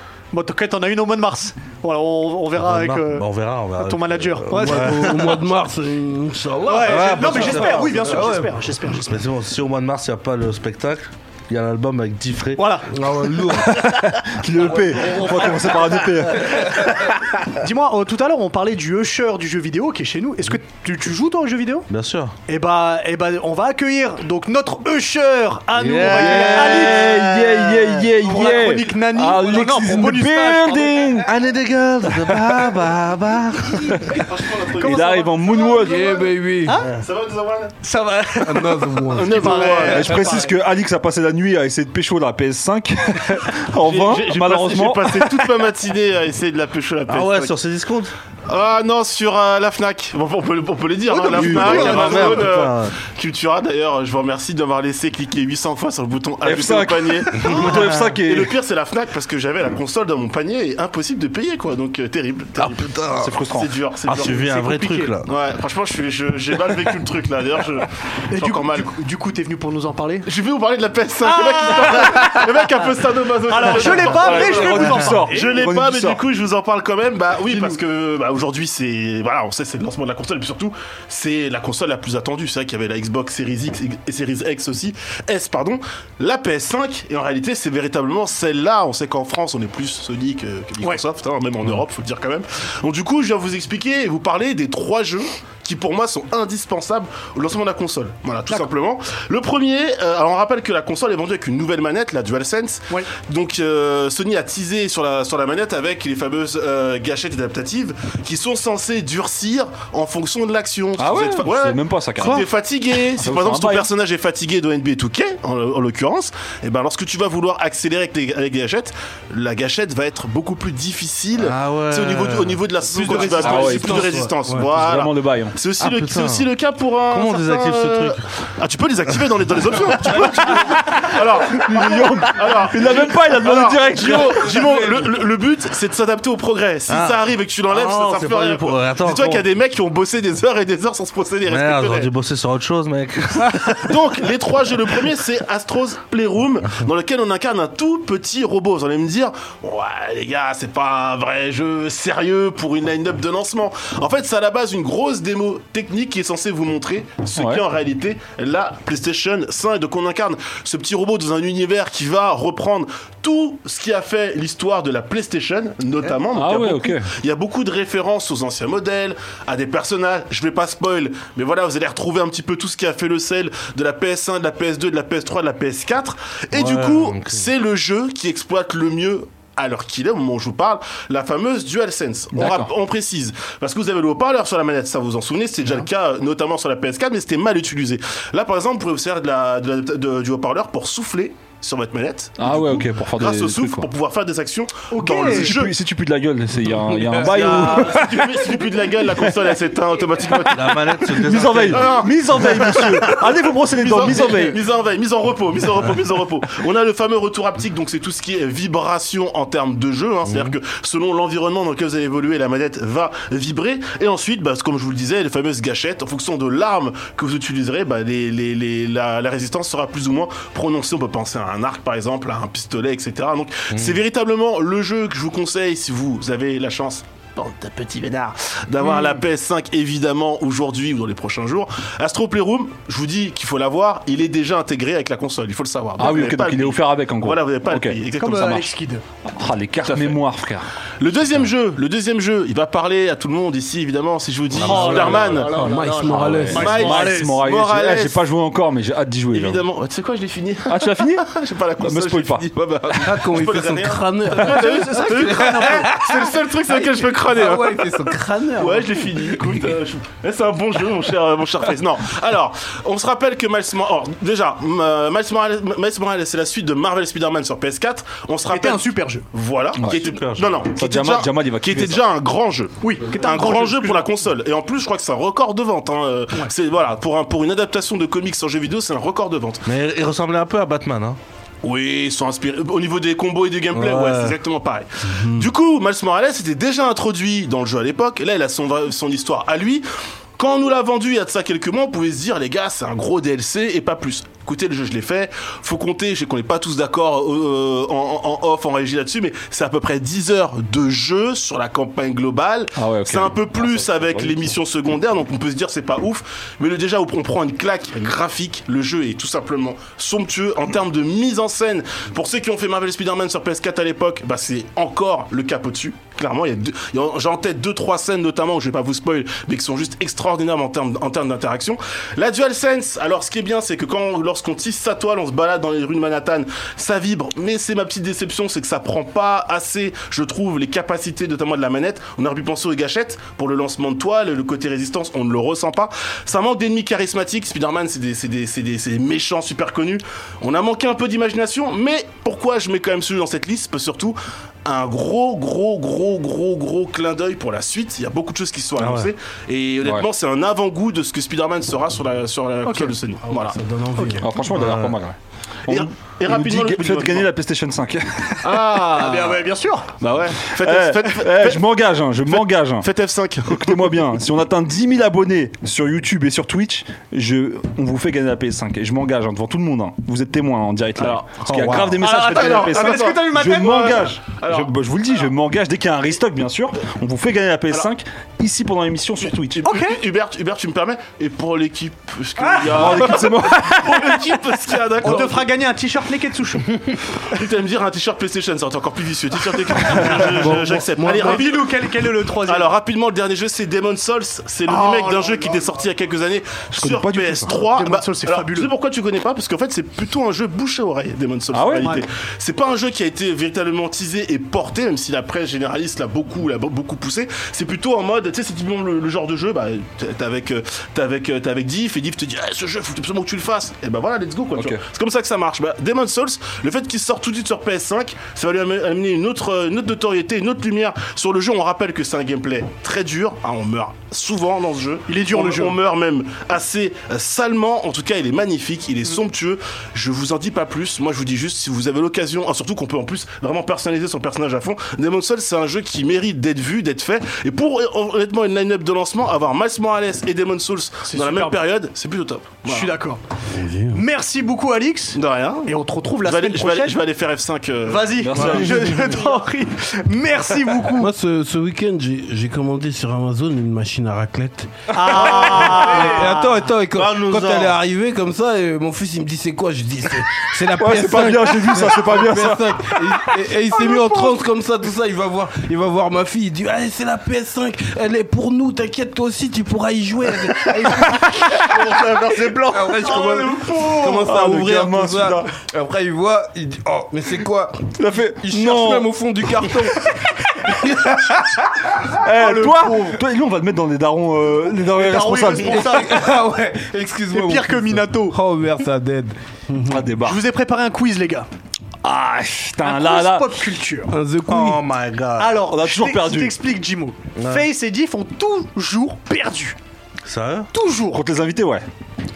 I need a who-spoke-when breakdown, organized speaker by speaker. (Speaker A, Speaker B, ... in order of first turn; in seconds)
Speaker A: 0.3-5.3, 6.7-9.2, 12.6-12.9, 14.7-15.9, 17.5-21.9, 22.5-27.1, 28.2-31.1, 36.6-36.9, 37.8-40.5, 51.1-52.5, 64.5-65.1, 68.3-70.3, 71.2-72.8, 73.5-75.6, 194.9-195.6, 238.2-239.0, 244.6-247.4, 254.4-255.9, 268.5-269.2, 272.8-274.1, 352.6-352.9, 354.0-354.3, 358.9-359.9, 371.9-374.1, 379.6-380.0, 382.4-383.2, 383.9-384.4, 385.0-386.8, 389.9-390.3, 391.0-392.7, 394.7-395.6, 397.7-398.7, 425.1-425.8, 441.1-441.6, 442.6-443.2, 443.9-447.0, 447.9-451.1, 454.9-456.7, 463.7-464.4, 473.0-474.2, 482.2-483.2, 484.9-486.4, 487.3-488.4, 490.2-491.5, 492.8-494.1, 495.4-499.8, 500.7-501.2
Speaker B: 2.5-5.3, 6.8-8.4, 8.9-12.8, 21.9-22.3, 25.7-27.9, 31.2-34.1, 36.7-37.0, 47.1-48.1, 51.4-53.0, 57.4-58.0, 62.6-63.4, 64.0-65.3, 112.2-112.5, 121.4-122.6, 125.8-126.5, 127.1-128.2, 136.9-139.5, 141.5-144.0, 176.5-177.4, 200.5-202.0, 210.3-210.5, 223.7-224.0, 269.9-270.6, 279.6-281.2, 283.7-284.4, 348.8-349.1, 354.5-354.9, 456.9-457.8, 471.1-473.2, 494.5-495.6, 497.3-497.7, 500.2-500.7
Speaker C: 4.5-8.6, 12.9-13.8, 35.8-36.7, 38.4-39.9, 122.9-124.7, 244.7-246.8, 252.9-259.4, 285.1-285.4, 353.2-354.3, 390.3-391.4, 443.5-444.0, 448.4-448.6, 451.0-471.7, 472.6-481.6, 485.6-490.1, 494.1-494.8
Speaker D: 13.6-16.9, 26.1-31.3, 32.1-32.7, 33.9-34.2, 34.8-36.2, 39.9-45.5, 51.3-51.9, 56.4-58.5, 63.2-63.7, 74.1-76.2, 111.0-112.5, 113.2-113.9, 123.4-125.5, 131.4-134.6, 157.3-157.6, 166.3-167.1, 182.3-182.7, 192.4-193.9, 195.2-198.5, 201.1-204.6, 236.0-238.0, 239.2-240.7, 246.0-249.6, 250.7-252.5, 269.8-270.0, 270.7-272.0, 302.8-304.5, 354.2-358.7, 360.5-362.9, 363.4-379.6, 382.7-384.2, 396.7-397.6, 401.5-401.9, 414.5-414.8, 448.2-449.1, 460.7-463.2, 474.0-475.5, 477.9-479.1, 482.1-486.0, 489.9-490.4, 492.0-493.7, 495.7-496.6, 501.1-501.9
Speaker E: 34.1-36.3, 37.0-37.8, 39.1-40.2, 43.8-47.6, 48.5-64.7, 65.2-68.9, 70.2-142.1, 143.8-195.7, 197.2-238.7, 239.8-240.2, 241.0-245.7, 246.5-248.2, 249.3-279.7, 281.6-289.9, 290.4-353.6, 355.7-357.3, 358.4-359.4, 360.0-361.6, 362.3-363.9, 371.0-374.7, 379.6-385.5, 387.3-391.8, 392.4-442.9, 445.1-448.4